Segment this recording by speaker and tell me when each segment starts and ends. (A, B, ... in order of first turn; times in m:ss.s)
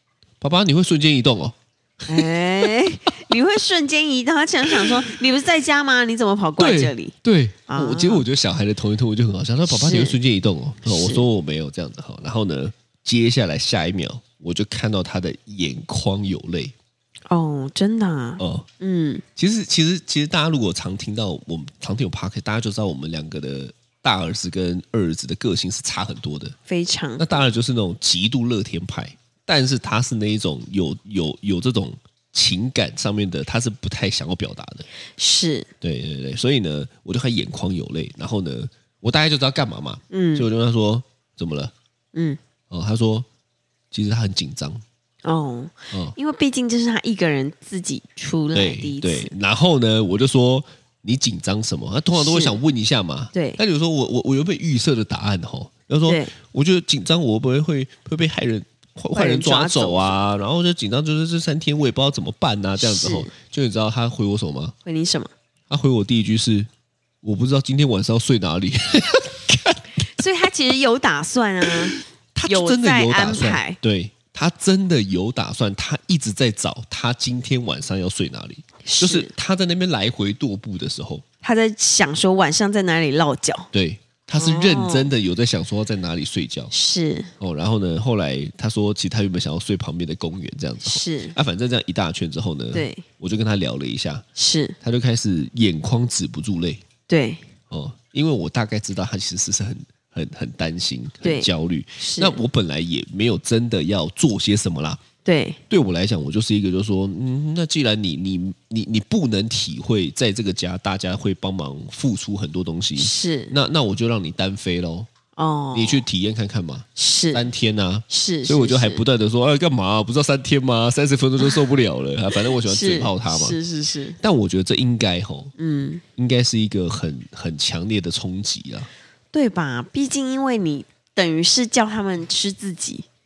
0:00.4-0:02.7 A
0:02.1-0:07.1 B
0:04.7-0:04.9 A
0:06.6-0:16.7 A
0:07.7-0:08.2 B
0:09.6-0:10.2 B
0:10.8-0:11.2 B
0:17.3-0:19.2 B
0:18.4-0:18.7 A
0:19.4-0:26.5 A
0:26.7-0:27.4 B
0:27.2-0:34.8 A
0:35.2-0:35.7 B
0:35.8-0:41.7 A
0:40.1-0:40.5 B
0:42.1-0:42.4 B
0:42.7-0:43.3 A
0:43.9-0:44.8 A
0:45.2-0:49.3 B
0:48.5-1:04.7 A
0:52.1-0:52.6 B
0:53.3-0:53.6 B
0:56.0-0:56.3 B
0:59.1-1:00.1 B
1:02.8-1:03.3 B
1:04.8-1:05.3 B
1:05.7-1:06.7 A
1:07.2-1:09.8 A
1:10.2-1:13.8 B
1:11.6-1:21.2 A
1:18.8-1:19.3 B
1:21.4-1:23.7 B
1:23.7-1:26.7 A
1:24.4-1:25.1 B
1:26.7-1:27.3 B
1:27.4-1:34.2 A
1:30.8-1:31.4 B
1:32.7-1:33.0 B
1:34.4-1:34.8 B
1:34.8-1:36.8 A
1:37.1-1:37.4 B
1:37.7-1:45.0 A
1:41.2-1:42.4 B
1:45.2-1:45.6 B
1:45.7-1:55.1 A
1:53.0-1:53.5 B
1:55.4-1:56.0 B
1:55.7-2:03.6 A
1:57.0-1:57.4 B
1:58.1-1:59.0 B
2:02.5-2:04.2 B
2:04.2-2:05.5 A
2:05.6-2:06.0 B
2:06.2-2:08.9 A
2:09.3-2:13.0 B